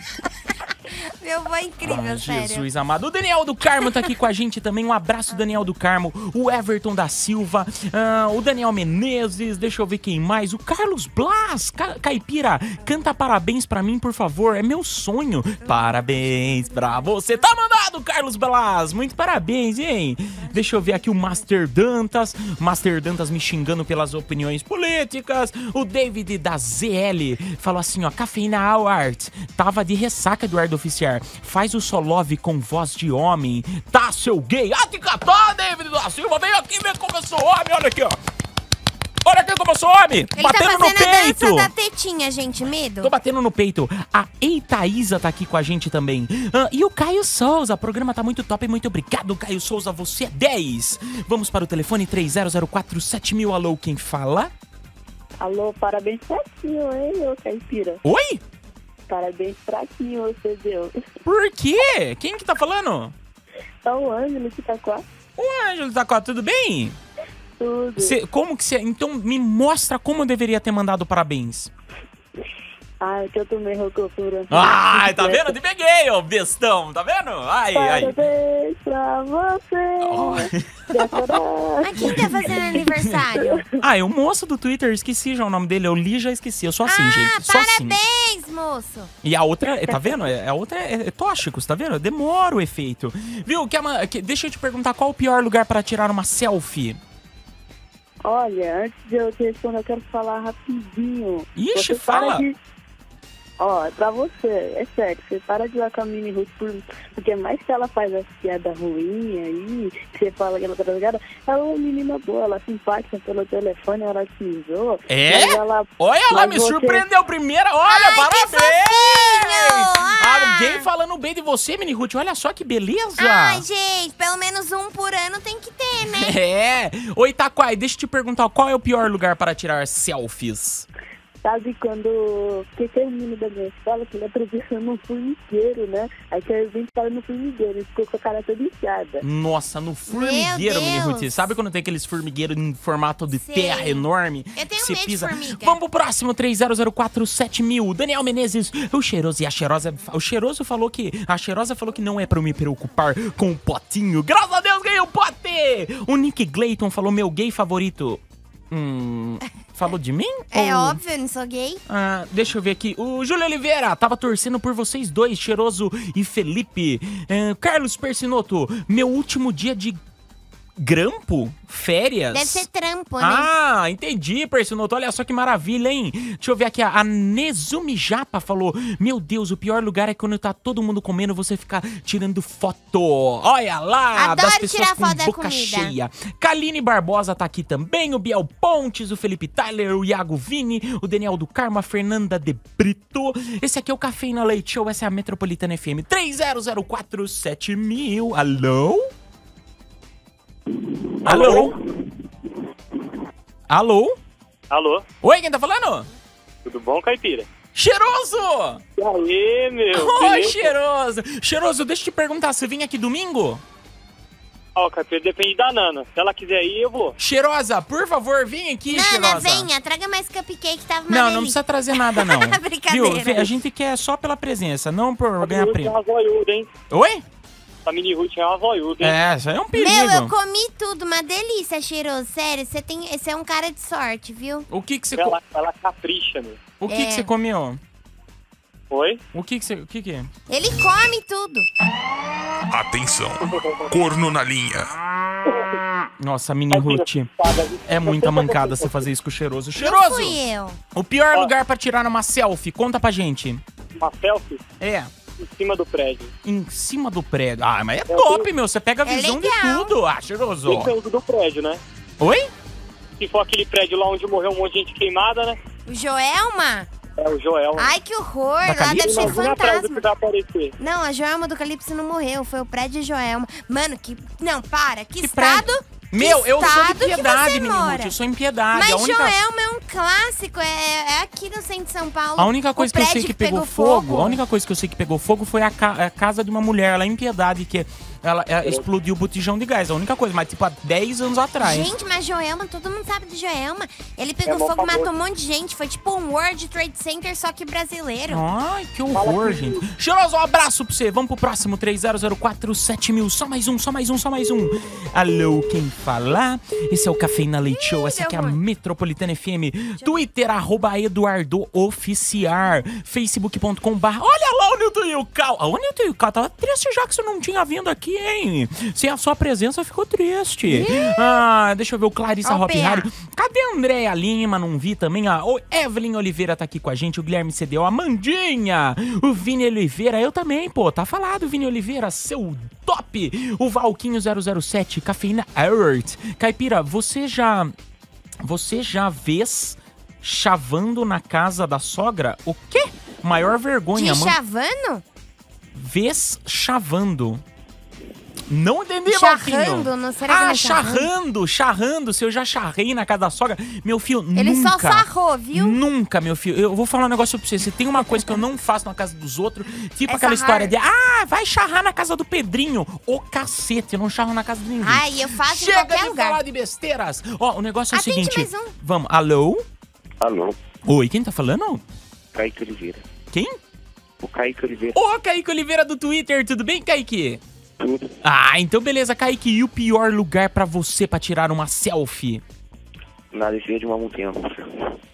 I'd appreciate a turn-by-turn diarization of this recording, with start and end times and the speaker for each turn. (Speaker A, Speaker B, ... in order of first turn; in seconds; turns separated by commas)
Speaker A: 1.2-2.7, Speaker B: 1.8-38.2, Speaker B: 39.2-41.7, Speaker A: 40.4-43.1, Speaker B: 43.0-54.5, Speaker C: 55.4-58.0, Speaker B: 58.0-58.4, Speaker C: 59.1-61.0, Speaker B: 61.2-63.1, Speaker C: 63.9-65.0, Speaker B: 65.4-67.0, Speaker C: 67.6-68.1, Speaker B: 68.0-71.7, Speaker C: 73.0-75.5, Speaker B: 74.5-78.1, Speaker C: 77.7-83.6, Speaker B: 80.0-81.4, Speaker A: 81.8-83.7, Speaker B: 82.0-83.2, Speaker B: 83.8-88.0, Speaker A: 86.9-89.1, Speaker B: 89.2-97.0, Speaker C: 98.2-102.6, Speaker B: 101.6-102.5, Speaker C: 103.6-117.0, Speaker B: 115.1-123.6, Speaker A: 117.9-120.9, Speaker A: 123.2-126.3, Speaker B: 126.0-130.9, Speaker C: 131.4-139.2, Speaker B: 139.2-161.0, Speaker A: 140.1-141.5, Speaker A: 143.3-144.1, Speaker A: 144.6-145.8, Speaker A: 160.5-161.8, Speaker B: 161.9-170.0, Speaker B: 170.8-172.6, Speaker A: 172.3-173.5, Speaker B: 173.2-199.1, Speaker A: 184.2-185.9, Speaker B: 201.2-201.8, Speaker D: 201.3-201.7, Speaker B: 203.7-204.2, Speaker D: 204.7-205.1, Speaker B: 205.2-206.1, Speaker D: 206.7-207.5, Speaker B: 207.8-208.8, Speaker D: 209.0-210.7, Speaker B: 209.9-213.6, Speaker D: 214.8-217.2, Speaker B: 217.2-219.7, Speaker A: 218.9-223.5, Speaker B: 221.1-225.9, Speaker D: 225.4-226.7, Speaker B: 226.9-227.2, Speaker D: 227.9-229.2, Speaker B: 229.0-230.3, Speaker A: 229.8-234.7, Speaker B: 234.7-235.4, Speaker D: 235.2-236.6, Speaker B: 236.8-237.8, Speaker A: 236.9-237.3, Speaker D: 238.9-239.2, Speaker B: 239.3-240.3, Speaker A: 240.5-241.7, Speaker E: 242.7-244.9, Speaker D: 243.5-243.9, Speaker D: 245.5-245.7, Speaker B: 246.2-247.3, Speaker D: 246.7-249.1, Speaker B: 247.8-250.4, Speaker A: 249.8-250.8, Speaker B: 250.9-253.6, Speaker D: 254.0-254.6, Speaker B: 254.8-255.1, Speaker D: 255.4-256.3, Speaker B: 256.4-260.9, Speaker D: 258.1-258.5, Speaker A: 259.1-259.9, Speaker D: 260.7-261.8, Speaker B: 262.2-262.5, Speaker D: 263.2-265.6, Speaker A: 265.9-266.9, Speaker D: 267.2-267.9, Speaker A: 267.8-270.0, Speaker B: 268.6-269.4, Speaker D: 268.9-270.8, Speaker A: 270.8-278.1, Speaker B: 275.2-279.4, Speaker A: 278.7-284.4, Speaker B: 282.4-291.9, Speaker A: 291.6-298.4, Speaker D: 294.5-295.1, Speaker B: 298.3-337.7, Speaker D: 299.1-299.9, Speaker A: 307.7-308.6, Speaker A: 320.7-321.2, Speaker A: 322.4-323.1, Speaker B: 338.4-344.4, Speaker A: 343.9-345.0, Speaker B: 345.7-347.4, Speaker B: 348.5-369.6, Speaker A: 349.1-351.1, Speaker A: 354.4-355.8, Speaker A: 358.0-358.4, Speaker A: 360.1-360.7, Speaker A: 364.8-366.4, Speaker A: 367.9-368.7, Speaker F: 370.2-370.6, Speaker B: 370.9-371.8, Speaker F: 372.3-373.0, Speaker B: 373.3-373.6, Speaker F: 374.2-375.0, Speaker B: 374.9-377.4, Speaker F: 377.8-378.1, Speaker B: 378.2-382.4, Speaker F: 383.3-384.7